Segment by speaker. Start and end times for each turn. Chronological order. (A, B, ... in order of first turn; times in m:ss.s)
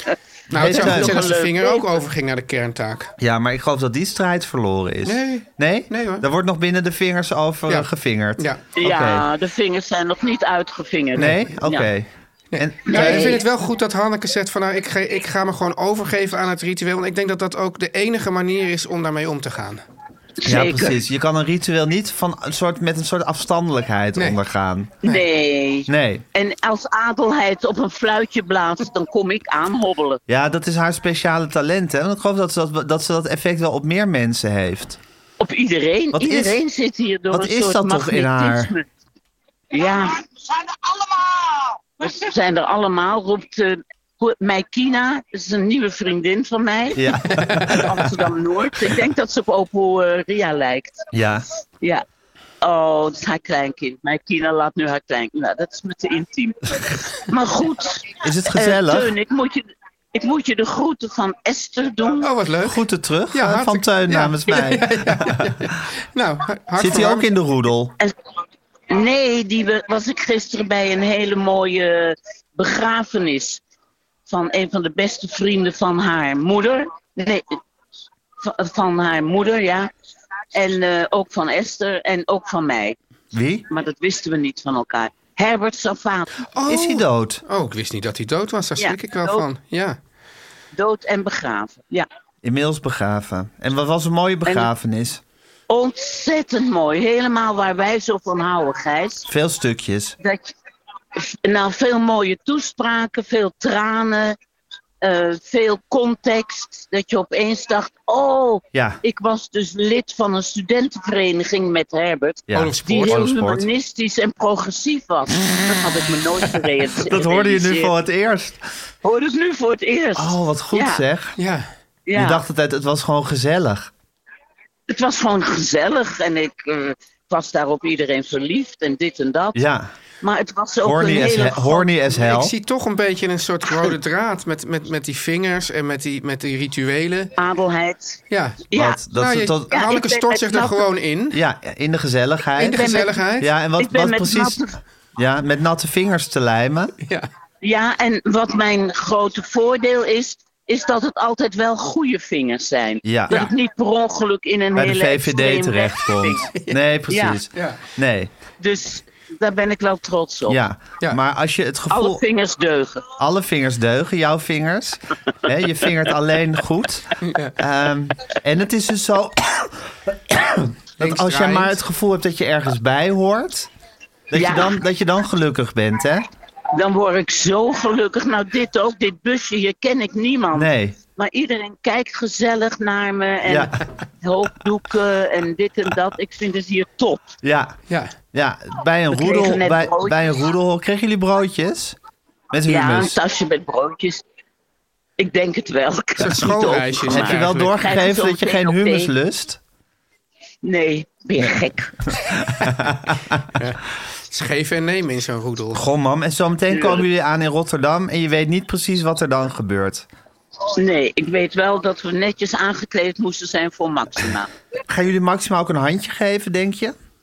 0:00.5-0:03.1 A
0:00.5-0:01.3 B
0:00.6-0:01.9 C
0:03.2-0:09.2 B
0:05.0-0:06.2 A
0:07.7-0:08.6 A
0:08.7-0:11.9 C
0:11.1-0:13.4 B
0:12.5-0:19.8 A
0:12.9-0:13.4 C
0:20.4-0:21.0 C
0:20.4-0:25.0 B
0:25.0-0:30.2 C
0:25.9-0:26.2 B
0:30.3-0:35.0 B
0:35.4-0:38.9 C
0:36.1-0:36.6 B
0:37.3-0:38.7 B
0:39.7-0:40.2 C
0:42.0-0:47.2 C
0:46.9-0:48.1 B
0:47.3-0:47.8 A
0:47.7-0:51.0 C
0:51.1-0:51.4 B
0:52.6-1:02.3 C
0:58.2-0:59.1 B
1:02.2-1:02.8 A
1:02.6-1:05.7 B
1:03.3-1:07.3 A
1:06.8-1:07.9 B
1:08.9-1:13.6 C
1:14.3-1:17.6 C
1:18.4-1:19.9 C
1:20.5-1:23.0 C
1:23.3-1:23.7 B
1:23.7-1:26.2 C
1:26.5-1:30.0 A
1:26.7-1:27.4 B
1:28.8-1:29.4 C
1:30.7-1:32.1 C
1:32.4-1:35.2 B
1:35.7-1:39.3 C
1:39.3-1:40.2 B
1:40.2-1:40.5 C
1:41.2-1:44.4 C
1:45.0-1:57.9 C
1:48.7-1:49.0 B
1:52.5-1:53.7 B
1:52.5-1:53.2 A
1:57.0-1:58.6 B
1:59.0-2:01.0 C
2:00.2-2:01.4 B
2:01.4-2:01.7 A
2:02.1-2:02.4 C
2:02.1-2:03.9 B
2:04.9-2:09.6 C
2:09.5-2:09.9 B
2:10.2-2:11.9 C
2:10.8-2:12.5 B
2:12.1-2:17.3 A
2:17.4-2:18.2 C
2:18.3-2:21.4 A
2:18.7-2:19.0 C
2:18.7-2:19.8 B
2:19.7-2:20.8 C
2:21.3-2:24.6 B
2:22.6-2:23.5 A
2:22.6-2:23.2 C
2:23.8-2:24.8 C
2:25.2-2:26.9 B
2:27.0-2:27.3 A
2:27.6-2:36.5 C
2:33.0-2:33.4 B
2:34.7-2:38.3 B
2:37.1-2:37.4 C
2:37.5-2:37.8 A
2:38.6-2:40.6 C
2:40.5-2:42.2 B
2:41.9-2:43.1 C
2:43.2-2:53.7 B
2:47.2-2:47.6 A
2:51.0-2:51.8 A
2:54.3-2:56.2 B
2:54.3-2:54.8 C
2:56.7-3:07.2 C
3:00.5-3:01.0 B
3:03.4-3:03.8 B
3:07.4-3:07.8 B
3:08.3-3:12.0 B
3:09.1-3:10.2 C
3:12.5-3:13.2 B
3:12.7-3:14.2 C
3:15.2-3:19.1 C
3:16.2-3:17.8 A
3:17.0-3:19.6 B
3:20.6-3:21.9 C
3:22.2-3:23.5 B
3:23.6-3:25.8 A
3:25.7-3:30.1 B
3:26.7-3:27.0 C
3:30.8-3:34.5 C
3:34.9-3:37.0 B